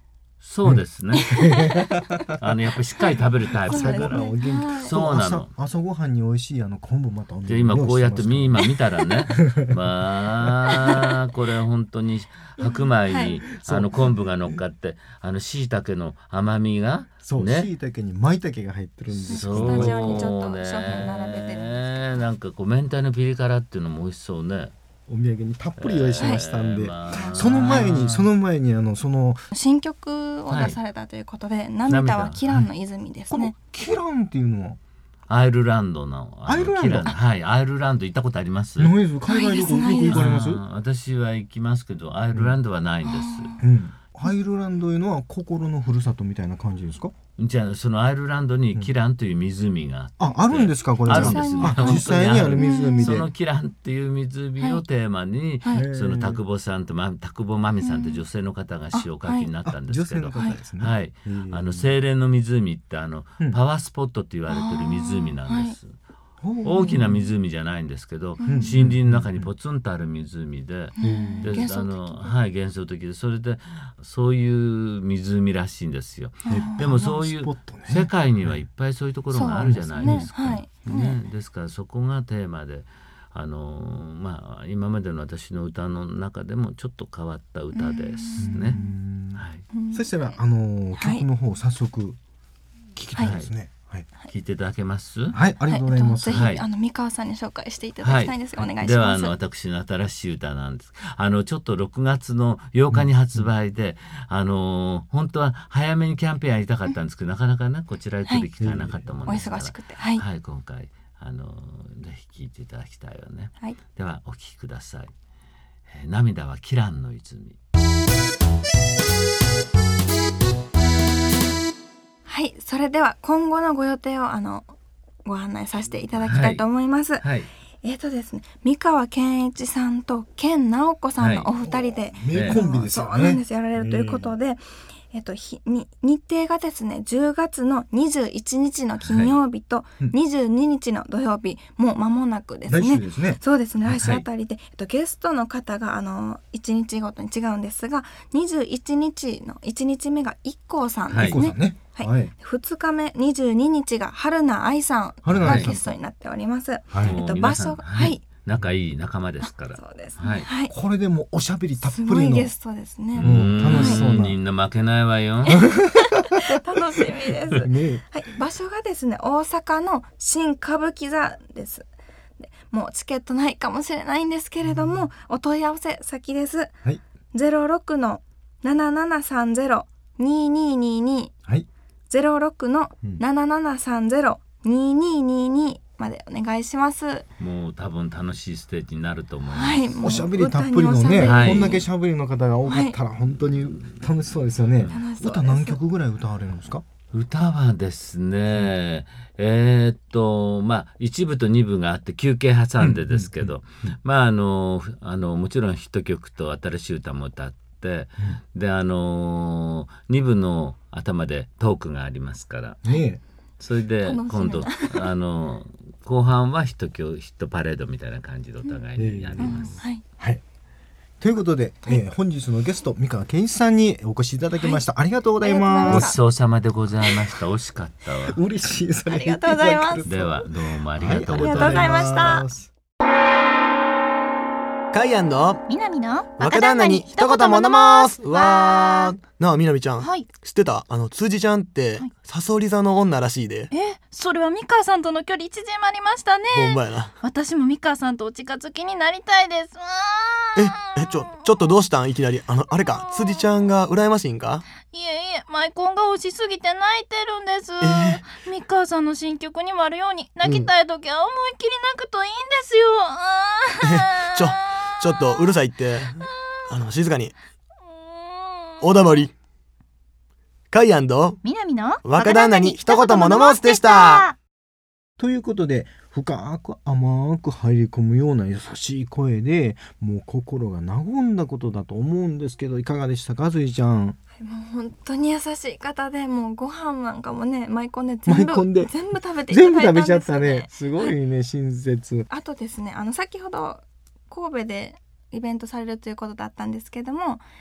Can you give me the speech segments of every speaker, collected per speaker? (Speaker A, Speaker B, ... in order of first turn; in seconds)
Speaker A: 0.4-1.5, 2.4-4.3, 4.8-5.5, 7.5-17.7, 19.1-24.7, 25.8-28.3, 30.5-30.8, 31.9-32.4, 35.3-38.9, 40.1-43.6, 47.4-65.9, 66.6-88.8, 89.3-89.6, 93.2-93.5, 94.3-95.4, 96.3-96.6, 98.0-115.1, 115.9-117.6, 126.2-126.6, 127.2-127.5, 131.2-131.5, 132.3-132.6, 139.0-139.3, 143.9-144.2, 151.1-151.4, 155.4-155.7, 157.0-160.5, 163.1-165.6, 187.4-190.2, 191.2-191.8, 193.4-194.0, 197.1-212.8, 213.6-219.8, 225.9-228.4, 230.0-232.3
Speaker B: 0.6-2.4, 3.6-8.7, 13.5-14.3, 17.2-20.3, 25.1-29.4, 33.3-34.8, 36.4-37.1, 38.8-40.6, 43.6-47.1, 50.2-53.3, 55.7-56.4, 59.6-61.9, 66.4-67.3, 68.4-69.5, 71.0-71.7, 76.5-78.6, 79.6-80.3, 88.4-92.2, 93.0-94.1, 95.3-96.5, 102.9-103.5, 108.6-109.1, 131.6-134.3, 142.7-143.4, 151.2-152.3, 155.2-156.0, 156.9-157.2, 160.7-162.5, 163.2-164.4, 167.5-168.0, 190.0-196.8, 202.8-203.9, 212.8-213.2, 218.9-220.4, 221.2-226.1, 228.2-232.7, 275.2-284.2, 288.3-292.3
Speaker C: 1.3-1.9, 3.7-5.0, 12.6-13.4, 19.3-22.2, 26.2-26.4, 27.1-27.8, 29.5-33.5, 39.3-40.3, 43.0-43.6, 51.1-53.1, 57.8-58.2, 58.9-59.5, 64.5-65.8, 68.4-68.8, 71.0-72.3, 76.4-76.9, 79.3-81.2, 87.7-88.9, 89.7-90.1, 91.0-91.3, 95.7-99.3, 109.2-110.2, 122.2-124.7, 125.2-127.2, 127.8-158.2, 159.4-160.7, 161.9-164.0, 165.4-171.8, 172.4-176.7, 177.3-181.3, 182.1-187.3, 189.5-191.8, 192.7-193.0, 194.9-195.8, 214.0-215.1, 219.4-220.0, 224.6-224.8, 225.4-226.2, 229.1-230.1, 231.3-232.5, 284.4-291.1, 292.3-297.4
Speaker D: 234.9-235.6, 236.4-243.7, 246.5-247.1, 250.6-254.6, 257.8-258.2, 260.4-260.7, 263.8-267.3, 268.8-269.3, 270.7-271.4, 272.0-274.3
Speaker E: 235.7-239.1, 240.0-240.3, 243.7-251.5, 252.8-253.2, 254.8-265.6, 267.9-269.2, 271.4-274.3